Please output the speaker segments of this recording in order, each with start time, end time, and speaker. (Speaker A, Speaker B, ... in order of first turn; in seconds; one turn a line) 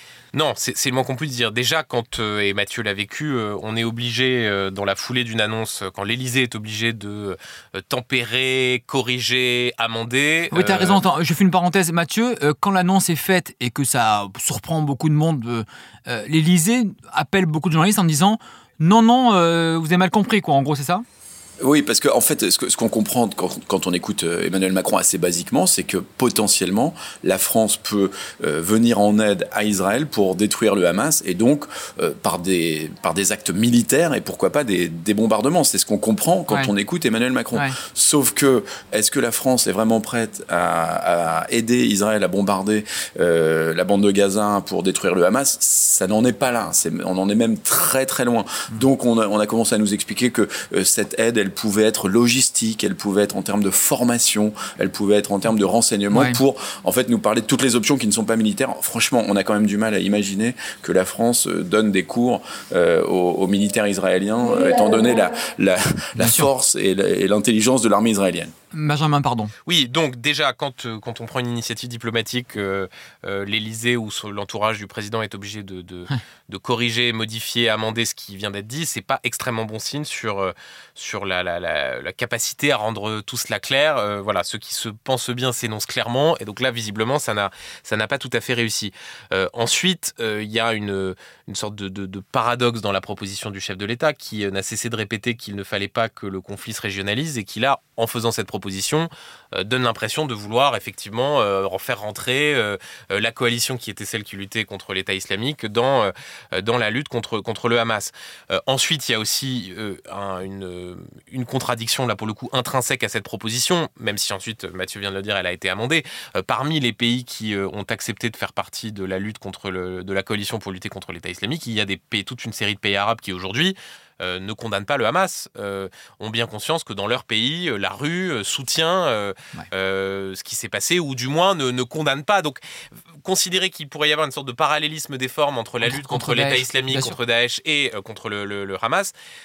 Speaker A: 0.3-11.0
Speaker B: 10.5-21.0
Speaker C: 21.6-68.5
Speaker B: 56.1-56.4
Speaker B: 66.2-66.5
Speaker B: 68.7-69.5
Speaker A: 69.7-132.6
Speaker A: 133.2-139.1
Speaker B: 135.8-137.2